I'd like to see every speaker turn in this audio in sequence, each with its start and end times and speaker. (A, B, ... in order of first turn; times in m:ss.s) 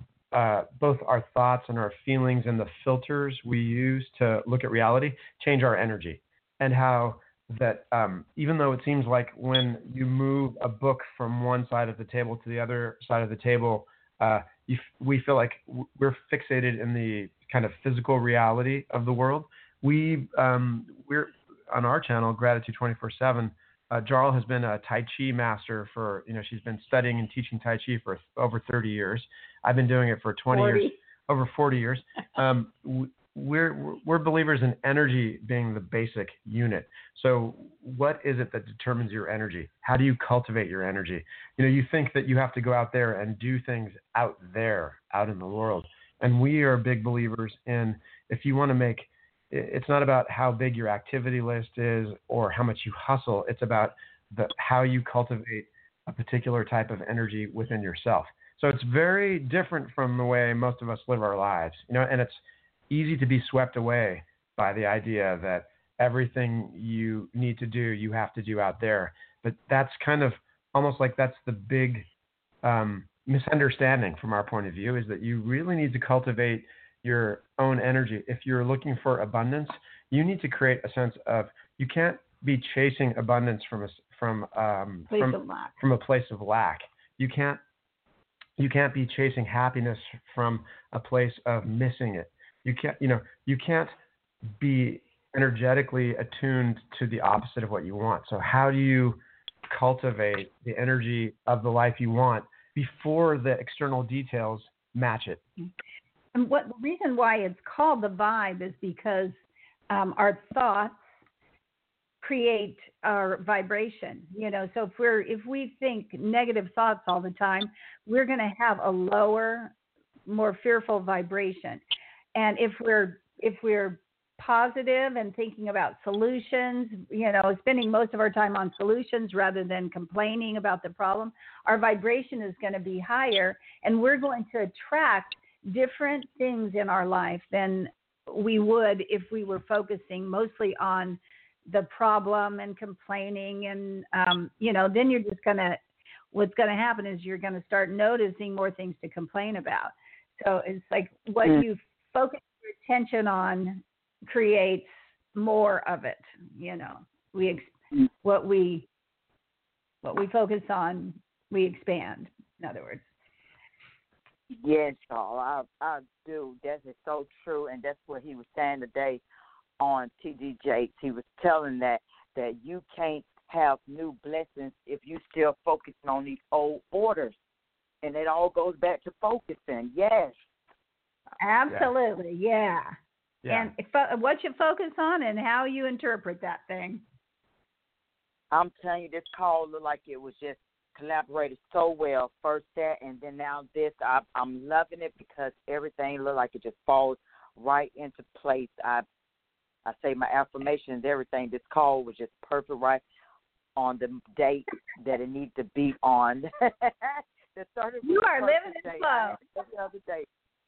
0:00.3-1:12.1 A
0:30.5-0:31.0 B
1:12.6-1:27.6 A
1:25.1-1:25.7 B
1:28.6-1:33.9 A
1:34.5-1:45.4 A
1:46.3-1:49.3 B
1:49.9-1:51.0 B
1:52.2-1:59.7 B
2:00.3-2:01.8 B
2:02.3-2:25.8 B
2:26.3-2:38.9 B
2:40.0-2:43.1 B
2:44.6-2:49.2 C
2:49.8-2:57.3 C
2:58.0-3:00.3 C
3:01.4-3:02.9 B
3:03.4-3:03.7 A
3:03.5-3:07.0 B
3:08.5-3:19.0 C
3:19.8-3:23.0 C
3:23.8-3:30.3 C
3:28.0-3:29.4 B